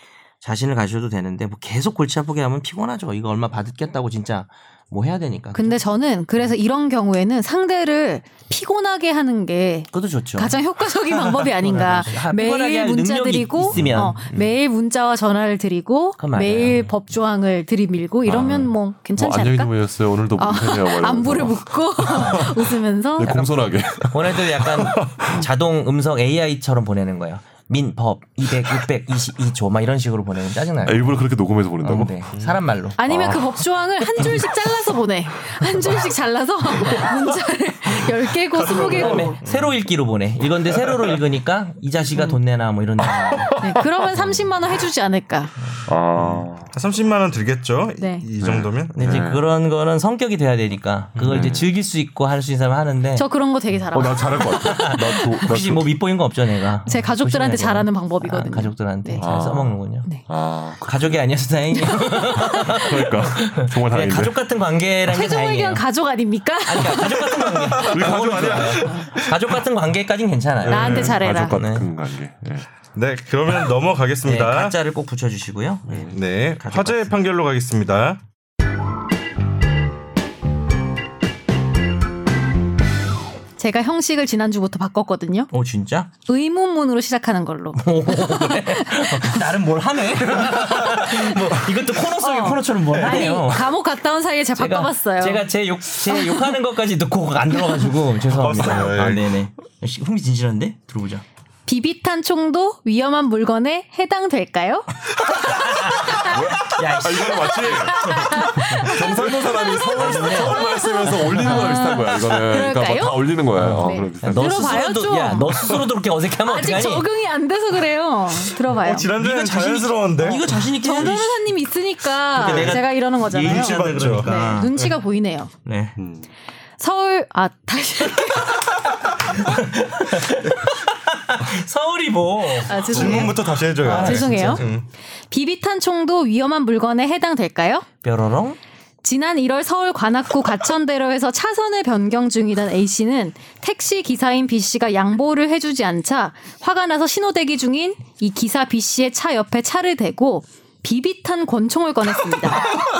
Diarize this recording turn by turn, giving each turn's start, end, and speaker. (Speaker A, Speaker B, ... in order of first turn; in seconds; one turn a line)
Speaker A: 0.4-5.8
Speaker B: 5.5-19.8
Speaker A: 9.9-10.6
Speaker A: 11.6-14.2
Speaker C: 13.7-14.5
Speaker A: 16.2-16.9
Speaker D: 18.2-25.5
Speaker B: 20.4-23.4
Speaker A: 22.1-22.5
Speaker A: 23.2-31.2
Speaker D: 30.8-32.2
Speaker A: 31.8-33.0
Speaker C: 32.3-32.6
Speaker B: 33.0-39.4
Speaker D: 33.0-34.5
Speaker C: 38.6-39.8
Speaker A: 38.7-43.5
Speaker B: 43.6-45.5
Speaker A: 45.6-45.9
Speaker D: 45.9-46.7
Speaker C: 46.2-49.0
Speaker B: 48.0-48.2
Speaker D: 48.4-49.5
Speaker A: 48.9-53.2
Speaker C: 51.1-51.4
Speaker D: 51.3-51.7
Speaker B: 53.2-55.4
Speaker D: 53.9-55.9
Speaker A: 54.5-60.2
Speaker B: 56.9-59.2
Speaker D: 59.2-61.2
Speaker A: 60.9-65.8
Speaker B: 61.7-62.9
Speaker D: 62.5-64.4
Speaker B: 65.1-67.4
Speaker A: 66.6-71.9
Speaker C: 67.6-69.3
Speaker D: 67.8-69.1
Speaker C: 70.6-71.2
Speaker B: 70.7-71.6
Speaker D: 70.8-72.7
Speaker C: 72.9-74.8
Speaker A: 74.2-77.1
Speaker D: 75.9-76.1
Speaker C: 76.0-78.2
Speaker B: 83.6-85.5
Speaker A: 85.5-86.1
Speaker B: 86.3-89.4
Speaker A: 87.7-93.7
Speaker B: 92.2-95.4
Speaker C: 92.9-93.3
Speaker A: 94.5-101.2
Speaker B: 96.1-96.5
Speaker C: 98.3-99.4
Speaker B: 101.7-104.9
Speaker A: 105.3-108.9
Speaker D: 106.0-114.8
Speaker B: 106.1-106.4
Speaker B: 107.3-115.8
Speaker A: 109.9-112.0
Speaker A: 113.6-117.1
Speaker B: 116.4-119.1
Speaker C: 118.6-121.2
Speaker A: 119.2-121.5
Speaker B: 120.3-125.5
Speaker A: 122.3-124.8
Speaker C: 122.3-125.0
Speaker A: 125.7-126.0
Speaker D: 126.0-126.3
Speaker B: 126.8-128.8
Speaker A: 129.2-134.8
Speaker B: 132.6-134.6
Speaker C: 132.9-134.8
Speaker B: 135.3-137.8
Speaker A: 138.0-138.6
Speaker B: 139.0-152.8